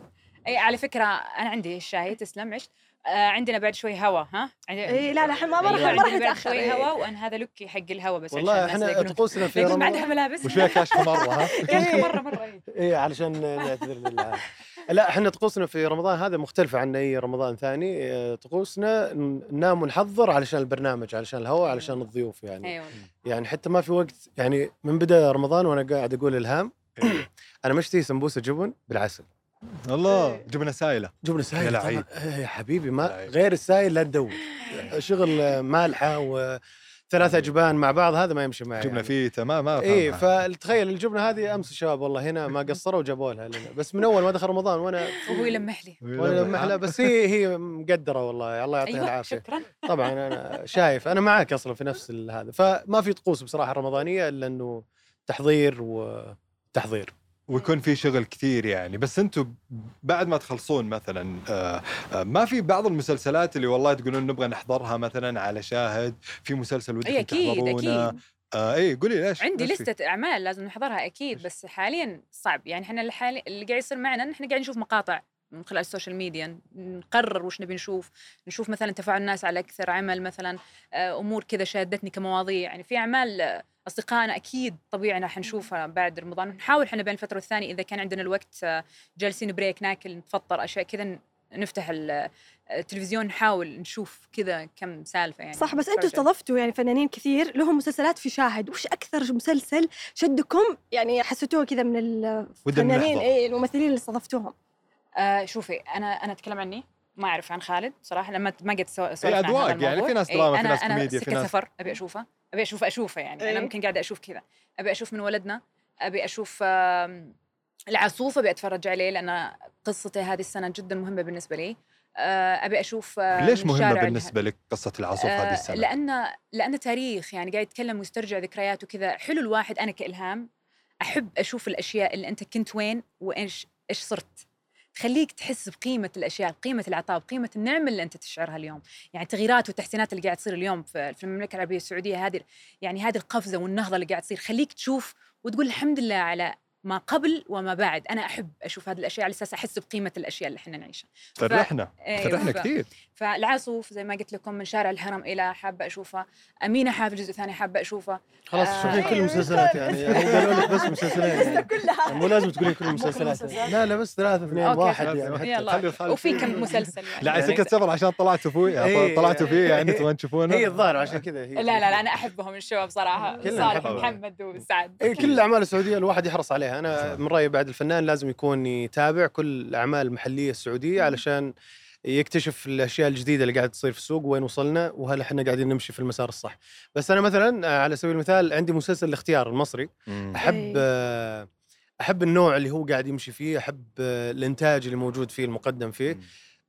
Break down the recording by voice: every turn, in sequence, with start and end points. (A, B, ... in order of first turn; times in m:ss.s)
0:00.4-0:12.6 A
0:04.9-0:06.9 B
0:08.3-0:10.1 C
0:09.6-0:12.1 B
0:10.4-0:12.0 D
0:12.7-0:29.2 C
0:21.7-0:22.0 A
0:22.6-0:23.0 A
0:27.0-0:27.2 D
0:29.8-0:32.0 D
0:31.2-0:39.1 C
0:33.0-0:33.3 D
0:38.8-0:40.2 D
0:39.8-0:57.1 C
0:45.2-0:46.0 A
0:46.0-0:47.2 D
0:48.8-0:50.1 A
0:57.5-1:09.9 D
1:07.0-1:08.1 A
1:09.4-1:36.2 A
1:35.6-1:44.5 B
1:42.6-1:43.3 D
1:45.2-1:57.3 A
1:49.2-1:51.5 D
1:53.4-1:53.7 B
1:57.9-2:04.3 A
2:03.4-2:05.9 D
2:05.2-2:10.5 A
2:11.0-2:14.4 A
2:15.0-2:39.7 A
2:31.4-2:32.9 D
2:38.5-2:45.5 C
2:38.8-2:43.6 B
2:40.3-2:40.6 D
2:41.3-2:41.5 A
2:42.8-2:43.9 A
2:44.6-2:47.7 A
2:45.0-2:51.2 D
2:47.3-2:47.6 C
2:48.8-2:52.0 C
2:51.6-2:55.3 A
2:53.4-2:54.2 C
2:53.7-2:54.1 D
2:55.0-3:01.5 C
2:55.1-2:55.4 D
3:02.1-3:11.5 C
3:10.1-3:10.4 D
3:10.4-3:10.8 B
3:12.0-3:16.2 C